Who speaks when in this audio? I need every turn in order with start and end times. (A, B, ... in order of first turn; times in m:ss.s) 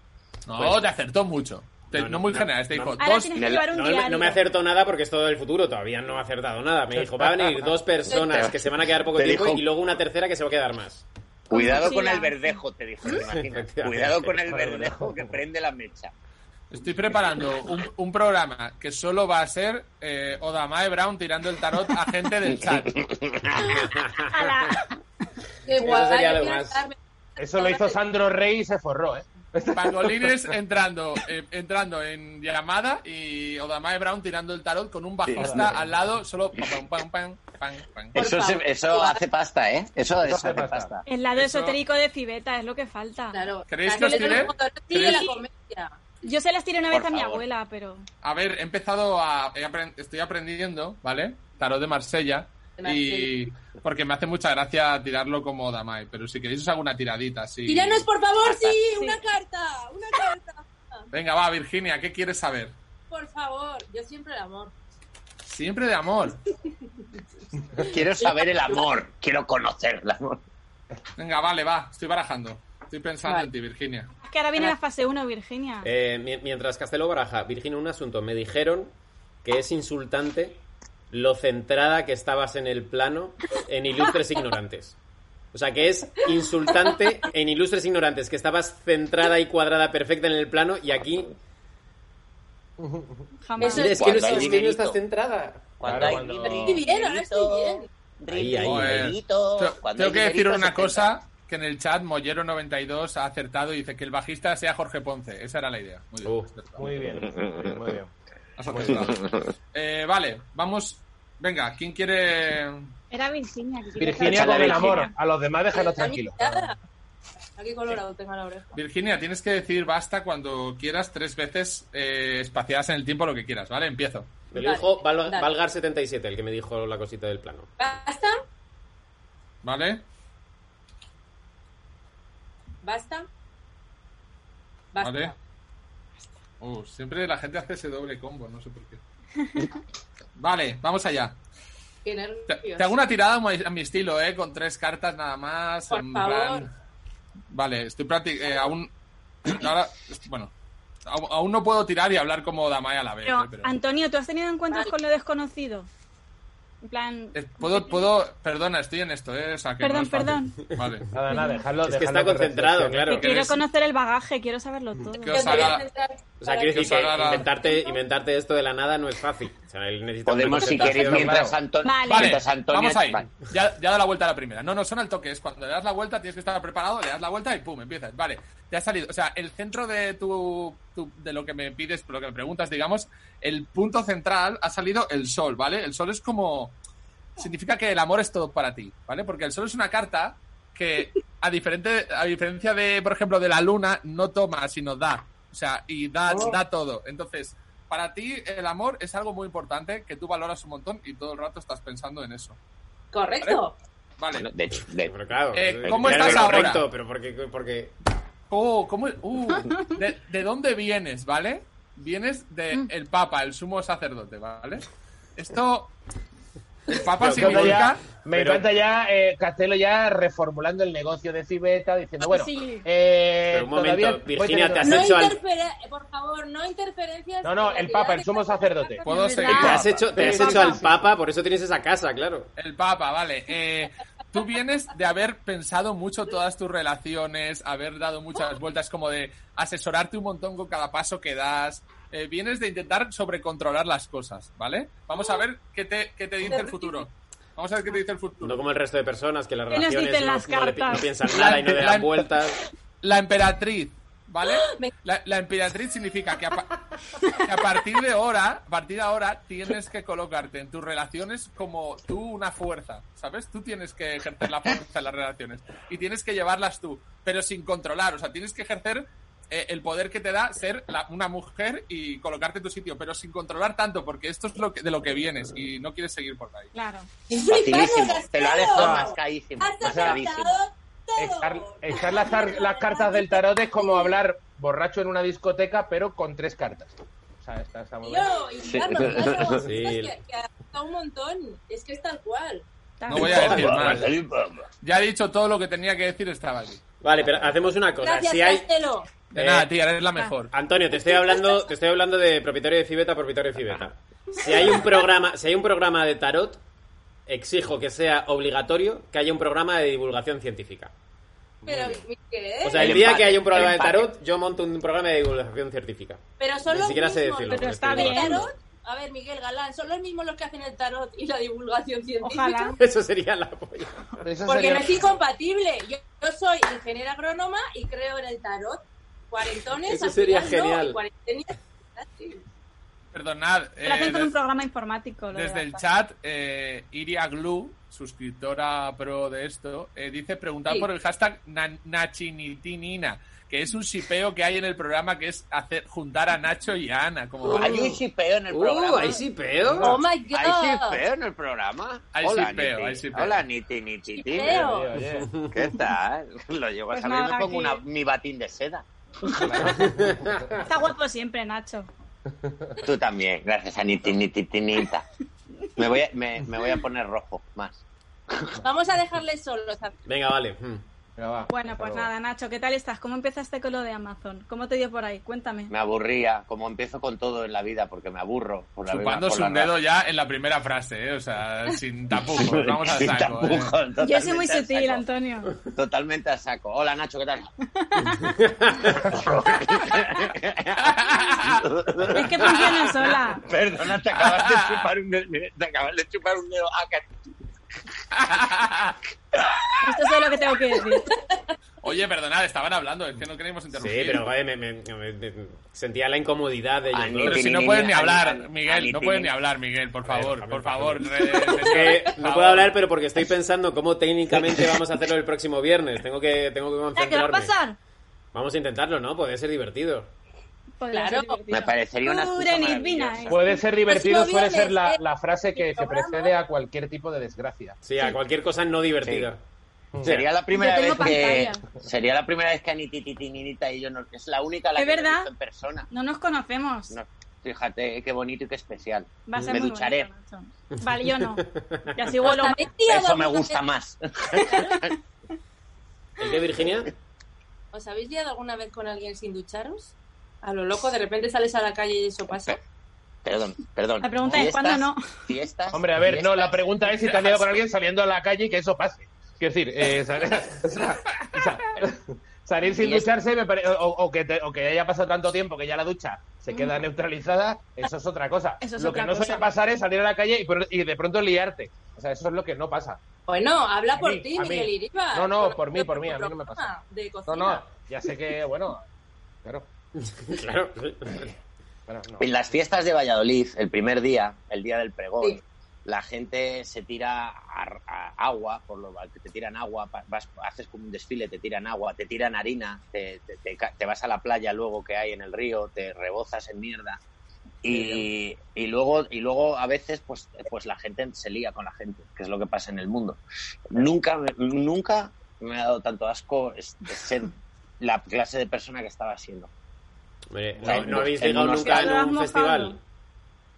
0:00.5-0:03.5 A
0:01.9-0:03.0 B
0:03.0-0:04.4 C
0:03.4-0:03.7 D
0:03.7-0:11.0 B
0:07.0-0:07.7 E
0:08.1-0:09.7 D
0:11.5-0:16.1 D
0:11.5-0:12.4 C
0:13.3-0:14.4 B
0:14.4-0:15.4 E
0:16.7-0:23.0 A
0:22.5-0:23.8 D
0:24.1-0:24.9 C
0:25.6-0:27.0 F
0:25.8-0:26.8 B
0:27.4-0:30.5 E
0:27.5-0:28.0 F
0:29.7-0:38.2 A
0:35.3-0:35.8 D
0:35.4-0:35.9 E
0:38.1-0:41.0 D
0:38.2-0:39.2 F
0:40.2-0:40.9 E
0:41.1-0:43.4 C
0:41.4-0:41.8 A
0:43.3-0:46.0 F
0:43.7-0:45.2 A
0:44.0-0:44.4 C
0:44.9-0:45.4 C
0:46.2-0:48.1 C
0:46.9-0:47.4 D
0:48.2-0:58.1 A
0:52.8-0:53.4 F
0:57.7-1:01.0 F
0:58.4-0:58.8 D
1:01.1-1:02.8 A
1:03.1-1:04.7 F
1:05.4-1:06.4 A
1:07.8-1:10.4 D
1:08.2-1:08.8 F
1:11.2-1:14.1 A
1:14.2-1:15.9 C
1:15.8-1:18.9 B
1:19.4-1:20.6 B
1:21.1-1:25.0 B
1:25.5-1:31.3 B
1:32.8-1:33.3 E
1:33.4-1:34.0 C
1:33.6-1:34.4 F
1:33.6-1:35.7 B
1:33.8-1:35.0 D
1:35.8-1:41.1 D
1:35.8-1:36.8 E
1:36.4-1:37.9 F
1:38.3-1:39.1 B
1:38.6-1:46.9 A
1:46.2-1:46.5 B
1:46.8-1:48.1 E
1:47.1-1:47.8 D
1:48.6-1:52.9 A
1:48.7-1:49.2 E
1:48.9-1:49.5 D
1:53.1-1:55.1 C
1:54.0-1:56.7 E
1:54.3-1:55.0 D
1:55.7-1:56.8 F
1:57.6-1:58.8 F
1:58.7-2:04.3 A
2:04.5-2:07.7 B
2:04.5-2:05.5 F
2:07.8-2:08.4 F
2:09.6-2:10.0 A
2:12.8-2:13.3 F
2:14.9-2:15.4 F
2:15.0-2:15.3 A
2:16.6-2:19.0 A
2:20.4-2:21.4 A
2:22.0-2:22.9 F
2:22.5-2:26.7 A
2:25.9-2:26.7 F
2:27.5-2:28.9 A
2:29.4-2:30.5 A
2:31.1-2:33.8 A
2:33.2-2:35.9 C
2:36.8-2:38.0 C
2:37.3-2:41.0 A
2:39.8-2:40.6 C
2:41.1-2:43.1 E
2:41.3-2:41.6 C
2:41.8-2:43.4 B
2:43.1-2:45.8 C
2:43.2-2:43.6 A
2:45.2-2:45.8 A
2:45.3-2:46.9 F
2:46.4-2:51.4 B
2:46.7-2:47.5 A
2:50.3-2:53.3 D
2:51.0-2:51.6 E
2:51.8-2:52.4 C
2:52.1-3:06.8 A
3:07.4-3:22.6 A
3:16.3-3:16.6 F
3:23.1-3:23.8 F
3:24.2-3:24.5 A
3:24.3-3:25.1 D
3:25.1-3:27.9 B
3:25.5-3:26.8 A
3:25.8-3:26.7 D
3:28.5-3:35.9 A
3:36.9-3:38.0 A
3:37.0-3:38.7 B
3:37.3-3:45.1 E
3:42.2-3:42.9 C
3:43.5-3:45.4 B
3:44.8-3:49.0 F
3:47.4-3:50.9 E
3:49.0-3:50.9 C
3:49.0-3:50.3 A
3:49.6-3:52.5 B
3:52.6-4:08.6 A
4:06.5-4:07.0 F
4:08.4-4:12.6 B
4:09.7-4:11.1 C
4:11.3-4:12.3 A
4:13.0-4:36.7 A
4:14.5-4:14.9 F
4:36.7-4:37.1 C
4:37.3-4:44.1 F
4:37.5-4:40.6 D
4:38.7-4:39.1 E
4:39.8-4:40.2 E
4:41.2-4:48.3 E
4:48.0-4:52.7 F
4:48.6-4:49.7 D
4:49.6-4:50.2 B
4:53.0-4:53.6 C
4:53.1-4:54.1 A
4:53.2-4:54.1 B
4:53.2-4:54.7 D
4:54.8-4:56.8 A
4:57.0-4:58.7 B
4:58.0-4:59.1 F
4:59.3-4:59.7 B
4:59.3-5:00.5 A
5:00.5-5:06.6 B
5:07.3-5:10.9 B
5:11.6-5:12.1 E
5:11.7-5:13.2 F
5:12.6-5:18.5 B
5:12.8-5:14.1 D
5:16.4-5:22.8 F
5:17.5-5:18.5 C
5:22.2-5:22.8 C
5:22.8-5:24.0 B
5:24.2-5:25.1 E
5:24.5-5:32.4 F
5:29.9-5:31.0 B
5:33.1-5:34.4 A
5:33.8-5:35.8 C
5:35.3-5:47.8 A
5:47.4-5:50.0 B
5:47.5-5:49.2 D
5:49.8-5:51.0 F
5:50.3-5:54.7 D
5:52.2-5:53.4 A
5:54.2-5:54.9 F
5:54.4-5:55.3 E
5:55.0-5:55.6 B
5:55.5-5:58.8 D
5:56.9-5:57.8 C
5:59.4-6:00.6 E
5:59.7-6:00.5 B
6:00.6-6:01.9 C
6:02.3-6:02.8 E
6:02.8-6:05.0 D
6:05.8-6:07.8 D
6:08.3-6:08.6 D
6:08.6-6:09.9 F
6:10.1-6:10.8 B
6:11.2-6:12.1 E
6:11.5-6:15.7 C
6:15.7-6:19.7 D
6:18.9-6:23.8 A
6:22.3-6:25.0 D
6:24.0-6:25.6 C
6:25.6-6:27.5 D
6:27.8-6:28.3 C
6:28.2-6:28.9 B
6:29.0-6:37.1 D
6:30.8-6:31.6 A
6:32.1-6:33.4 C
6:34.1-6:34.9 A
6:38.1-6:39.0 A
6:39.4-6:39.7 D
6:39.8-6:41.1 C
6:41.8-6:44.2 A
6:43.7-6:47.5 B
6:46.9-6:49.3 D
6:47.2-6:52.7 A
6:50.1-6:57.5 B
6:57.0-6:57.8 C
6:58.3-7:00.1 B
7:00.8-7:03.5 C
7:00.9-7:01.4 F
7:01.5-7:03.4 D
7:03.3-7:07.8 E
7:03.9-7:05.0 F
7:05.6-7:06.3 F
7:07.8-7:09.4 B
7:09.0-7:09.3 D
7:09.9-7:10.2 E
7:10.0-7:15.9 D
7:10.5-7:11.7 C
7:14.8-7:15.3 C
7:15.9-7:17.0 C
7:16.9-7:20.1 D
7:19.3-7:22.7 C
7:21.2-7:21.9 B
7:22.2-7:23.6 F
7:22.9-7:24.9 D
7:24.5-7:24.7 F
7:26.2-7:26.9 B
7:27.7-7:32.6 F
7:33.2-7:37.3 D
7:34.0-7:35.0 C
7:35.7-7:53.0 E
7:42.8-7:43.1 D
7:46.5-7:46.8 C
7:48.6-7:49.5 C
7:53.3-7:57.7 F
7:53.9-7:56.7 E
7:57.3-7:58.8 E
8:00.0-8:01.3 B
8:01.9-8:02.3 E
8:02.2-8:17.0 D
8:17.6-8:29.5 D
8:17.7-8:18.1 E
8:30.3-8:32.8 B
8:30.6-8:32.0 D
8:31.6-8:32.8 C